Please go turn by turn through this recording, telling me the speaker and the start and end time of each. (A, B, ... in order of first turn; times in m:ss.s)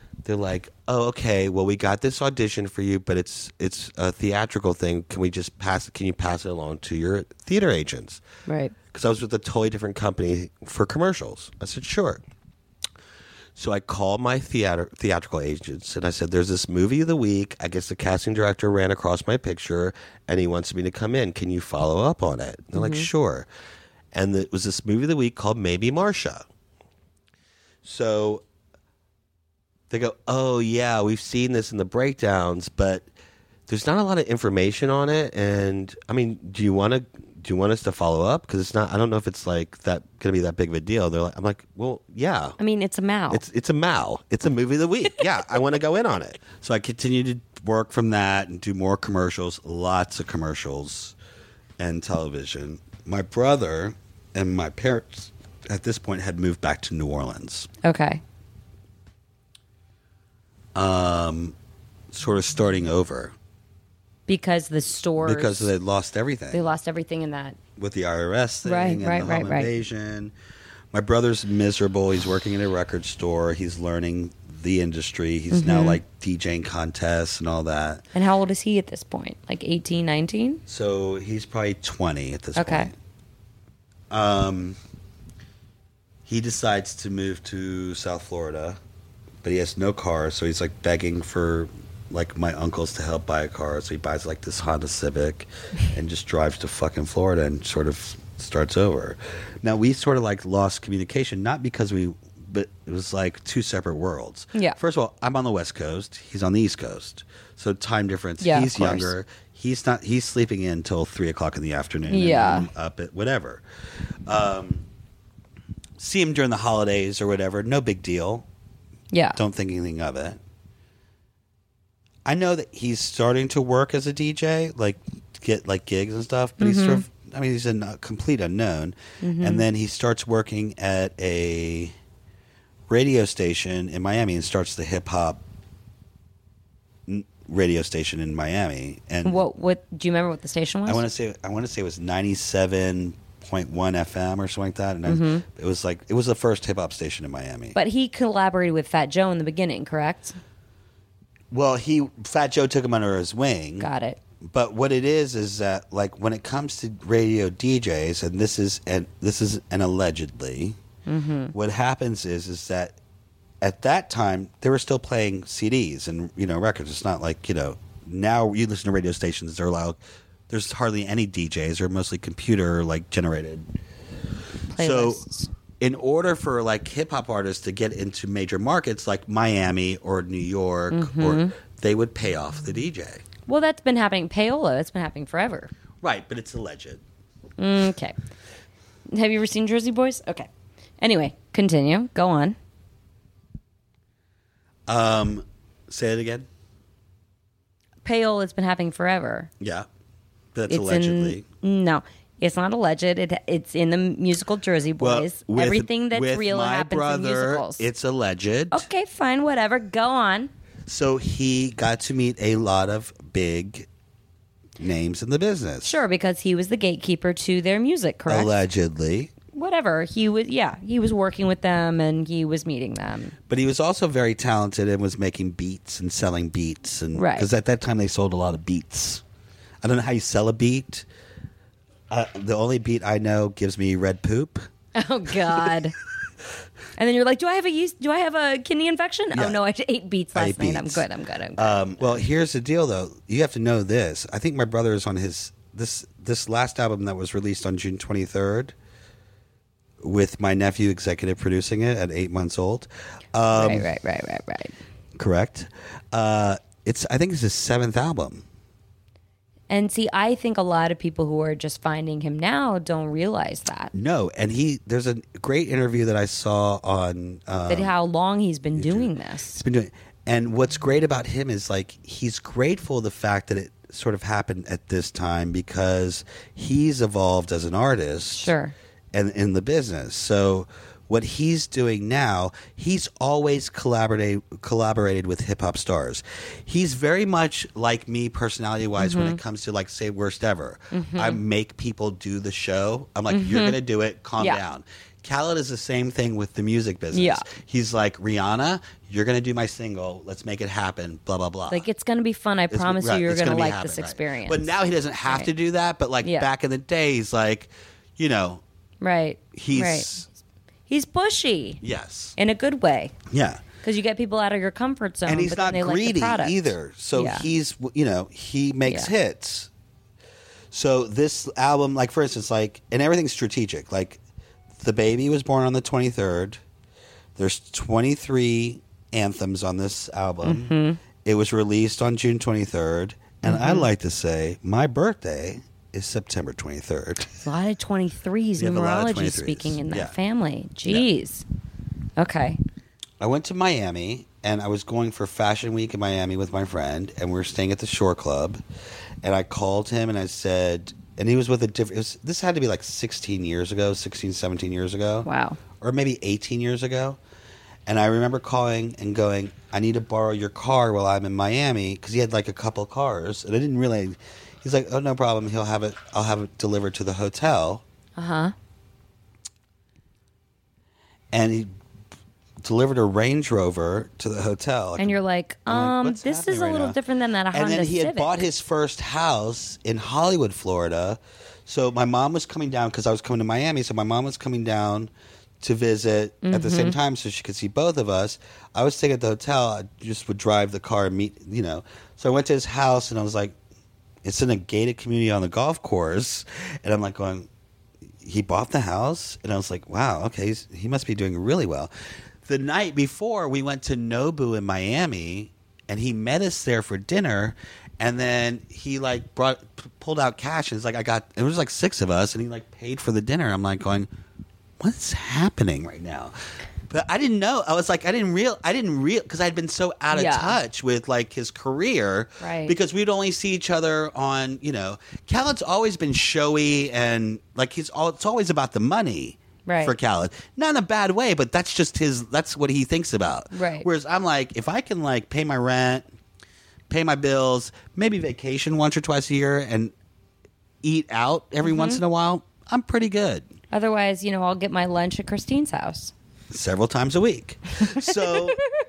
0:00.2-0:08.2 A
0:08.5-0:08.7 B
0:08.9-0:12.2 A
0:13.6-0:23.5 A
0:22.8-0:23.1 B
0:24.1-0:26.5 A
0:27.8-0:28.4 A
0:29.9-0:33.0 A
0:33.7-0:42.6 A
0:42.6-0:43.4 B
0:43.3-0:46.4 A
0:46.5-0:51.2 C
0:51.8-0:57.7 C
0:57.8-0:58.2 B
1:00.8-1:01.6 C
1:02.1-1:03.3 C
1:04.3-1:05.7 B
1:05.2-1:06.6 C
1:06.5-1:07.6 B
1:07.8-1:10.3 C
1:08.6-1:09.7 B
1:10.9-1:18.0 C
1:15.5-1:16.0 B
1:18.1-1:20.6 B
1:20.7-1:22.9 C
1:22.6-1:22.9 B
1:24.1-1:24.8 C
1:26.3-1:28.8 C
1:29.4-1:53.6 C
1:48.4-1:49.1 B
1:52.1-1:52.7 B
1:54.3-1:54.8 C
1:56.0-1:58.4 C
1:59.1-1:59.4 B
1:59.4-2:00.4 C
2:02.2-2:11.9 C
2:06.6-2:07.0 B
2:09.2-2:09.6 B
2:12.9-2:15.4 C
2:17.1-2:19.5 C
2:19.2-2:21.0 B
2:20.9-2:27.8 C
2:25.1-2:25.4 B
2:27.8-2:30.4 B
2:31.5-2:33.9 C
2:33.8-2:34.2 B
2:34.4-2:40.8 C
2:41.1-2:41.5 B
2:41.5-2:43.0 C
2:43.6-2:53.7 C
2:54.7-2:55.5 B
2:54.8-2:55.2 C
2:55.8-3:03.2 C
3:00.9-3:01.5 B
3:03.5-3:05.7 B
3:06.0-3:07.0 C
3:07.6-3:08.2 B
3:09.1-3:10.5 B
3:11.0-3:12.6 B
3:14.9-3:16.5 C
3:18.0-3:19.5 B
3:19.6-3:19.9 C
3:20.5-3:21.4 C
3:20.7-3:27.8 B
3:25.0-3:28.9 C
3:28.7-3:30.5 B
3:30.9-3:33.9 C
3:34.8-3:35.9 C
3:35.8-3:38.5 B
3:38.3-3:39.3 C
3:39.5-3:43.4 B
3:43.5-3:49.2 C
3:47.2-3:47.5 B
3:49.8-3:51.0 C
3:52.1-3:54.7 C
3:55.0-3:56.0 B
3:57.0-4:02.2 B
3:59.3-3:59.6 C
4:00.4-4:01.0 C
4:01.6-4:08.7 C
4:10.0-4:13.9 C
4:13.5-4:14.8 B
4:15.2-4:18.4 C
4:19.7-4:23.9 B
4:23.9-4:27.9 C
4:27.7-4:29.6 B
4:28.8-4:38.5 C
4:38.3-4:38.7 B
4:39.1-5:01.9 C
4:49.0-4:49.4 B
4:50.9-4:51.4 B
4:53.3-4:53.8 B
4:57.1-4:57.5 B
5:01.7-5:04.7 B
5:02.7-5:08.6 C
5:05.2-5:05.5 B
5:06.2-5:06.5 B
5:09.0-5:10.1 B
5:09.5-5:10.3 C
5:10.9-5:11.8 B
5:11.8-5:12.4 C
5:12.4-5:13.1 B
5:13.3-5:13.6 C
5:13.8-5:17.5 B
5:15.3-5:19.7 C
5:18.9-5:19.1 B
5:20.7-5:24.2 C
5:24.8-5:26.6 C
5:27.4-5:37.4 C
5:30.4-5:31.0 B
5:33.4-5:33.9 B
5:37.4-5:41.4 B
5:38.6-5:40.1 C
5:42.2-5:42.6 B
5:43.2-5:48.6 C
5:49.2-5:55.3 C
5:55.2-5:55.6 B
5:55.8-5:57.2 C
5:57.9-6:07.8 C
6:08.2-6:08.5 B
6:11.3-6:11.7 C
6:12.6-6:15.2 C
6:15.0-6:18.4 B
6:15.7-6:17.0 C
6:17.5-6:33.6 C
6:26.4-6:27.0 B
6:34.2-6:37.5 C
6:38.2-6:41.9 C
6:42.4-6:54.1 C
6:54.8-6:56.4 C
6:56.9-7:16.1 C
7:00.1-7:00.6 B
7:02.4-7:02.8 B
7:09.7-7:09.9 B
7:13.5-7:13.9 B
7:16.9-7:19.9 C
7:20.8-7:23.4 C
7:21.6-7:22.0 B
7:23.7-7:26.1 B
7:26.5-7:28.6 C
7:27.9-7:28.4 B